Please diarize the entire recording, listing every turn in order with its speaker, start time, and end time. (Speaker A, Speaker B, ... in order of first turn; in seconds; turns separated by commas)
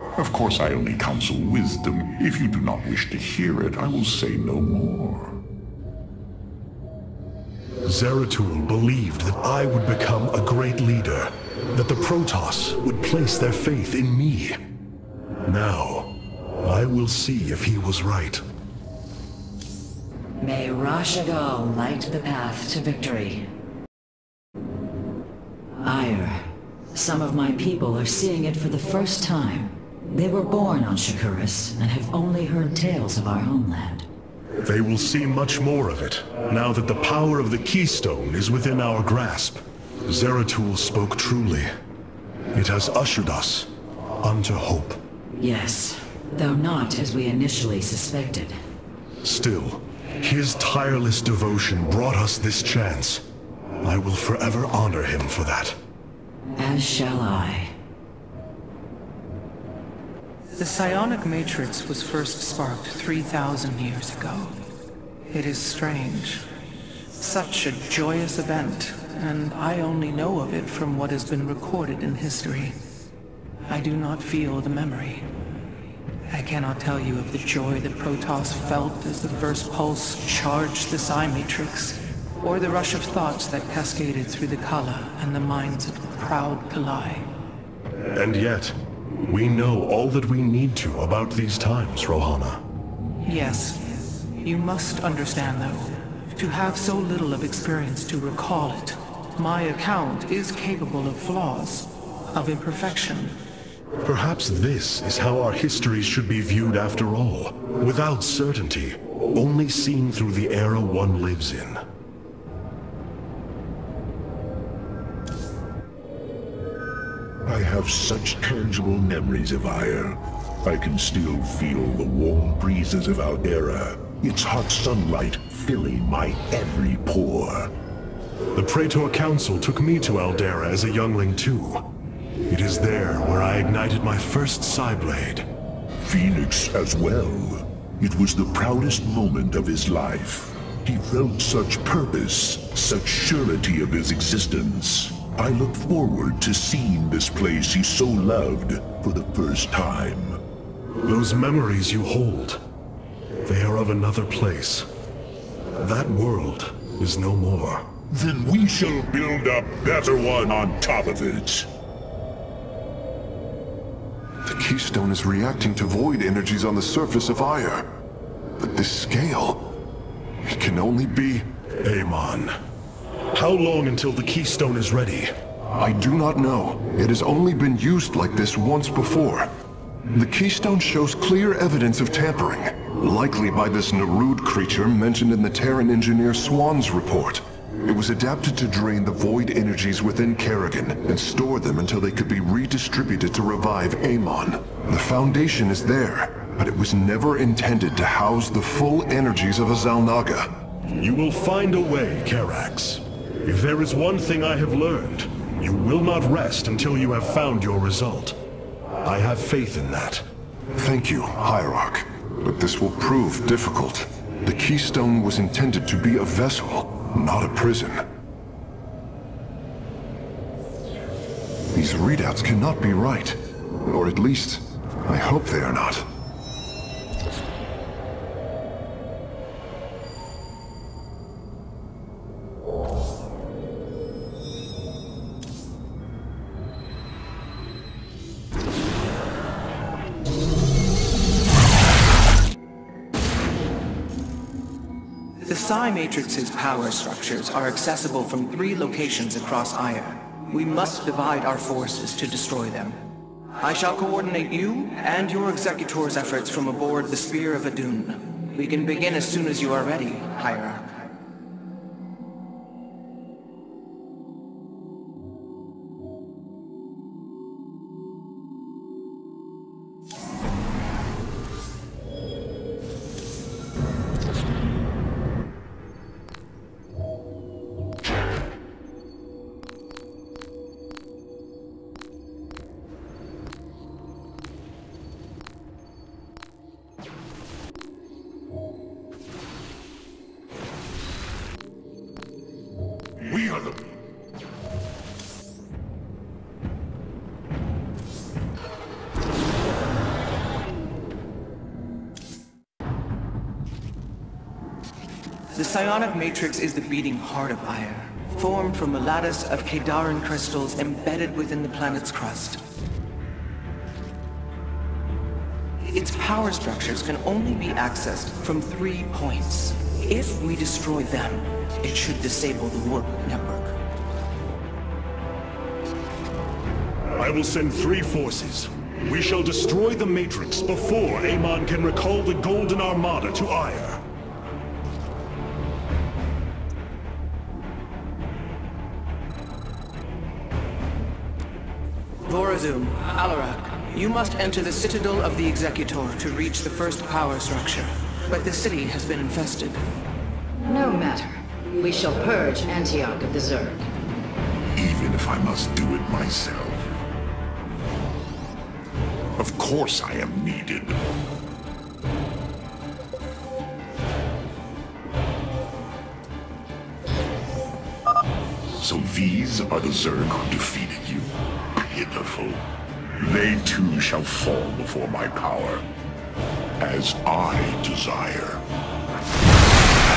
Speaker A: 0.2-5.4, Speaker B: 7.8-14.6, Speaker B: 15.4-18.4, Speaker C: 20.4-23.5, Speaker C: 25.8-34.1, Speaker B: 34.6-41.7, Speaker B: 42.5-45.0, Speaker C: 45.4-48.6, Speaker B: 49.2-53.2, Speaker B: 53.8-55.8, Speaker C: 56.6-57.7, Speaker D: 60.6-64.6, Speaker D: 65.3-66.5, Speaker D: 67.2-72.8, Speaker D: 73.7-75.3, Speaker D: 76.3-87.3, Speaker B: 88.1-92.6, Speaker D: 93.2-103.4, Speaker B: 104.0-111.8, Speaker E: 117.5-127.7, Speaker B: 128.6-131.9, Speaker B: 132.5-135.5, Speaker E: 136.0-150.4, Speaker B: 151.0-152.6, Speaker B: 153.4-154.9, Speaker B: 155.8-157.9, Speaker E: 158.1-161.7, Speaker F: 164.4-167.9, Speaker F: 168.6-169.7, Speaker F: 170.4-171.5, Speaker B: 171.8-172.6, Speaker B: 173.3-175.3, Speaker F: 175.8-179.5, Speaker F: 180.1-200.6, Speaker B: 200.9-208.4, Speaker B: 209.0-210.2, Speaker F: 210.8-218.0, Speaker F: 221.7-226.1, Speaker D: 245.4-253.0, Speaker D: 253.6-260.9, Speaker A: 293.2-293.9, Speaker D: 305.5-312.6, Speaker D: 315.9-323.8, Speaker B: 327.2-334.0, Speaker D: 342.3-349.8, Speaker C: 350.7-353.9, Speaker A: 354.8-356.9, Speaker A: 359.4-361.0, Speaker A: 368.8-372.6, Speaker A: 373.2-375.8, Speaker A: 376.8-378.6